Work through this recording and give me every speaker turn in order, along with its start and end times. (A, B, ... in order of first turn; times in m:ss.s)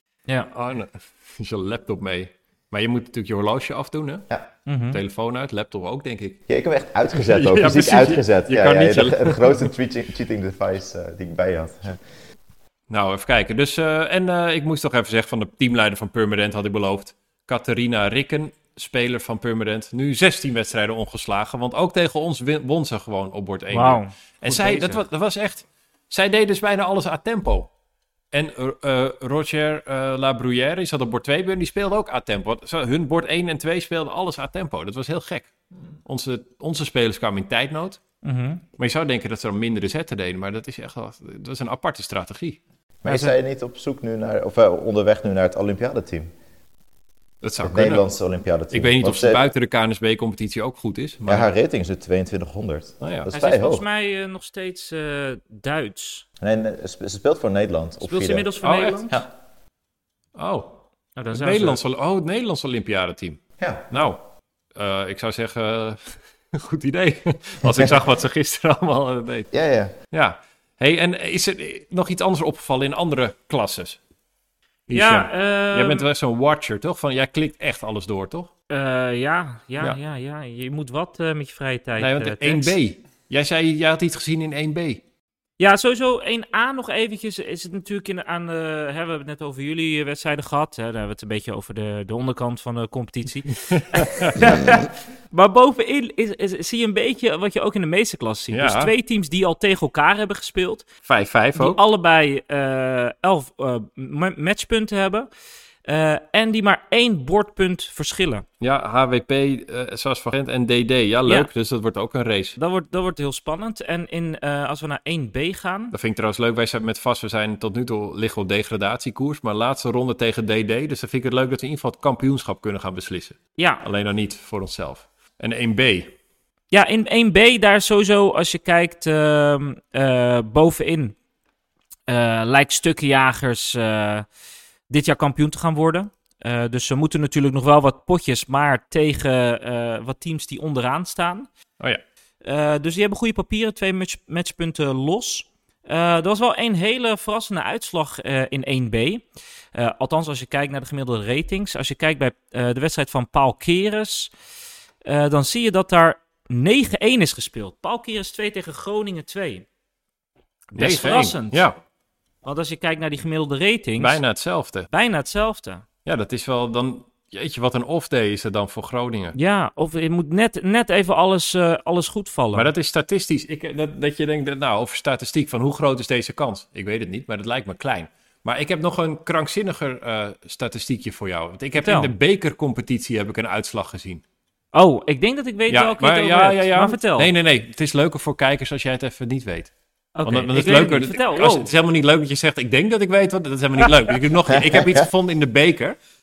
0:00.5-0:04.3 A
0:04.7-0:05.0 B
0:04.9-0:06.4 A
0:06.5-0:12.0 C
0:07.1-0:09.7 A
0:12.9-0:27.7 A
0:23.7-0:25.0 B
0:28.3-0:35.5 A
0:36.0-0:38.0 A
0:38.2-0:38.6 B
0:38.8-0:42.6 A
0:43.0-0:46.3 C
0:43.1-0:43.3 B
0:47.4-0:48.0 A
0:47.6-0:49.4 C
0:48.7-0:51.5 A
0:51.3-0:53.8 C
0:53.0-0:53.3 A
0:53.3-0:56.2 B
0:56.4-0:58.5 C
0:58.0-0:59.2 B
0:58.6-0:59.1 A
1:00.4-1:00.8 A
1:01.2-1:01.8 B
1:01.3-1:04.2 A
1:03.6-1:03.9 C
1:04.8-1:09.5 A
1:09.5-1:09.9 C
1:10.1-1:14.0 A
1:14.9-1:18.5 A
1:14.9-1:16.0 B
1:18.7-1:22.8 B
1:22.0-1:25.0 A
1:25.6-1:40.9 B
1:33.7-1:34.4 A
1:38.5-1:38.9 A
1:41.0-1:41.8 A
1:41.6-1:45.3 B
1:45.9-1:48.4 B
1:48.6-1:52.6 A
1:52.6-1:56.0 B
1:55.9-2:06.1 A
2:03.6-2:03.8 B
2:06.7-2:11.2 B
2:12.1-2:14.3 B
2:14.9-2:21.5 B
2:22.4-2:34.3 B
2:35.0-2:39.7 B
2:40.7-2:41.8 A
2:40.8-2:41.7 B
2:42.4-2:44.2 B
2:44.0-2:44.9 A
2:44.9-2:45.8 B
2:46.0-2:49.4 A
2:49.4-2:52.7 B
2:52.5-3:04.2 A
3:01.8-3:02.1 B
3:04.7-3:07.3 B
3:05.7-3:16.0 A
3:10.2-3:11.7 B
3:14.5-3:15.1 C